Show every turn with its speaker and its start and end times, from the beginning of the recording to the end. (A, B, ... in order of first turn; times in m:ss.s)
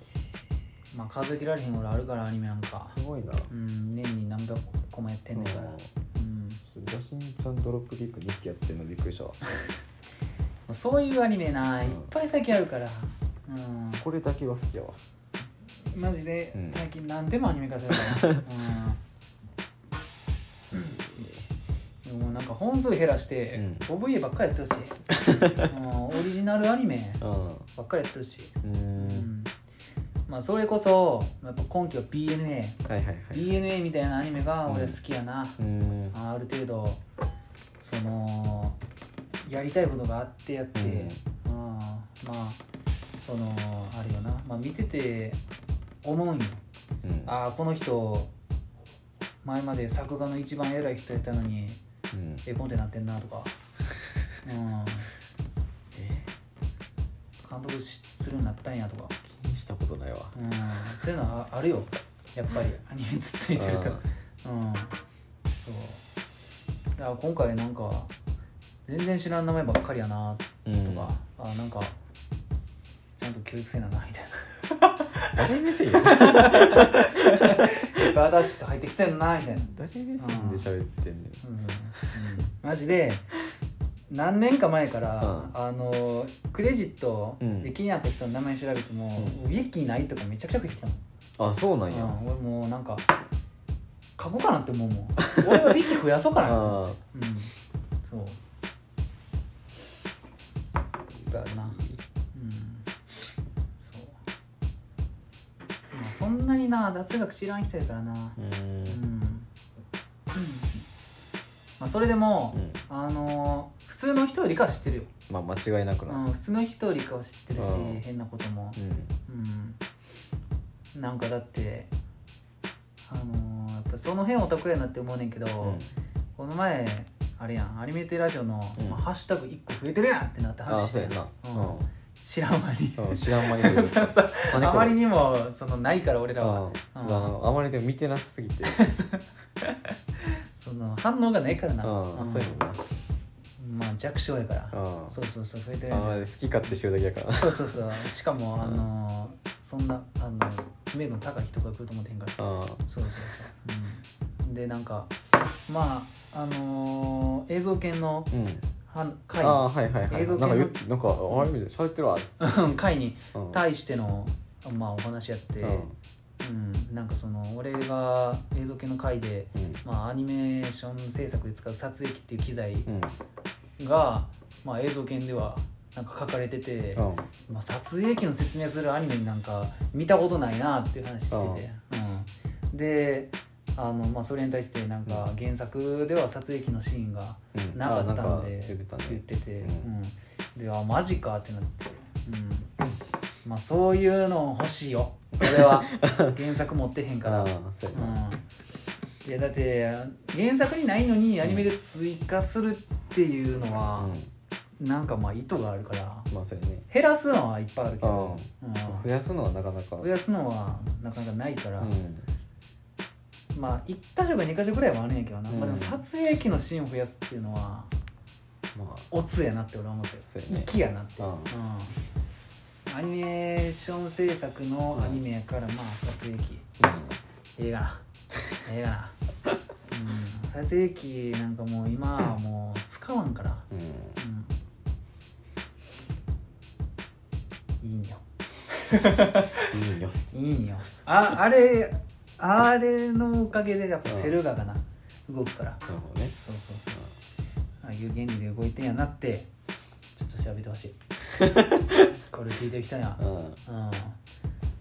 0:00.9-0:03.0 A
0:02.8-0:03.5 B
0:03.5-0:06.6 A
0:05.4-0:05.9 B
0:06.7-0:09.4 B
0:10.7-0:14.0 A
0:11.8-0:12.1 B
0:14.0-0:15.0 B
0:15.9-0:19.0 A
0:16.5-0:16.8 B
0:18.0-0:18.4 B
0:20.7-0:21.0 A
0:20.8-0:21.4 B
0:22.0-0:25.0 A
0:23.6-0:23.8 B
0:25.1-0:25.7 B
0:25.6-0:27.2 A
0:27.2-0:27.7 B
0:27.8-0:29.5 A
0:28.6-0:29.3 B
0:30.3-0:32.8 A
0:32.9-0:33.6 B
0:33.3-0:37.0 A
0:34.7-0:35.0 B
0:35.6-0:36.2 B
0:37.8-0:38.8 A
0:39.4-0:42.6 A
0:40.8-0:41.2 B
0:43.2-0:45.4 A
0:46.0-0:46.6 A
0:47.0-0:47.3 B
0:47.2-0:48.3 A
0:49.4-0:51.8 A
0:52.1-0:52.4 B
0:52.4-0:53.5 A
0:54.4-0:55.1 A
0:55.9-0:56.3 B
0:57.4-0:59.2 A
0:59.2-1:00.4 B
1:00.4-1:04.9 A
1:03.6-1:04.0 B
1:05.6-1:06.0 A
1:07.0-1:08.1 A
1:08.8-1:12.0 A
1:10.6-1:11.1 B
1:13.2-1:20.7 A
1:15.2-1:18.1 B
1:19.6-1:21.4 B
1:21.4-1:23.3 A
1:22.0-1:22.3 B
1:24.1-1:31.0 A
1:25.2-1:25.5 B
1:27.4-1:27.7 B
1:31.4-1:32.2 B
1:31.9-1:33.1 A
1:34.2-1:37.5 A
1:35.4-1:35.7 B
1:36.4-1:37.0 B
1:38.0-1:38.4 A
1:41.3-1:42.9 A
1:43.8-1:44.2 A
1:45.9-1:49.5 A
1:48.4-1:49.0 B
1:50.3-1:50.9 A
1:51.8-1:55.1 A
1:52.5-1:52.8 B
1:55.3-1:56.2 B
1:56.1-1:59.8 A
1:57.6-1:58.0 B
1:58.8-1:59.1 B
2:00.9-2:01.9 A
2:03.1-2:05.8 A
2:05.6-2:05.9 B
2:06.4-2:17.3 A
2:08.8-2:09.0 B
2:10.7-2:11.9 B
2:13.0-2:15.0 B
2:16.4-2:18.9 B
2:18.7-2:22.6 A
2:21.8-2:22.8 B
2:23.6-2:26.3 A
2:24.7-2:25.2 B
2:25.9-2:27.8 B
2:27.4-2:35.1 A
2:32.4-2:32.8 B
2:35.7-2:38.3 A
2:38.3-2:38.7 B
2:38.9-2:40.8 A
2:39.4-2:42.4 B
2:42.4-2:45.9 A
2:43.3-2:43.6 B
2:45.6-2:46.0 B
2:46.4-2:52.9 A
2:49.6-2:49.8 B
2:52.9-2:53.2 B
2:53.8-3:12.7 A
2:57.0-2:57.3 B
3:01.3-3:01.6 B
3:07.5-3:09.9 B
3:13.4-3:18.4 A
3:15.4-3:16.4 B
3:17.2-3:18.2 B
3:19.2-3:24.2 A
3:21.4-3:21.7 B
3:24.0-3:24.3 B
3:24.8-3:26.3 A
3:26.3-3:26.8 B
3:26.9-3:29.1 A
3:28.0-3:30.1 B
3:30.0-3:32.0 A
3:31.8-3:32.3 B
3:33.5-3:37.9 A
3:35.5-3:36.0 B
3:38.7-3:39.1 B
3:39.1-3:42.0 A
3:40.2-3:41.5 B
3:42.9-3:46.7 A
3:44.9-3:45.2 B
3:46.8-3:47.2 B
3:47.6-3:49.2 A
3:49.9-3:54.6 A
3:53.7-3:54.2 B
3:57.8-3:59.8 A
3:59.6-4:00.3 B
4:00.3-4:07.1 A
4:04.0-4:04.3 B
4:05.9-4:06.4 B
4:07.8-4:09.5 A
4:10.1-4:11.0 A
4:11.3-4:12.1 B
4:12.3-4:14.2 A
4:13.2-4:13.6 B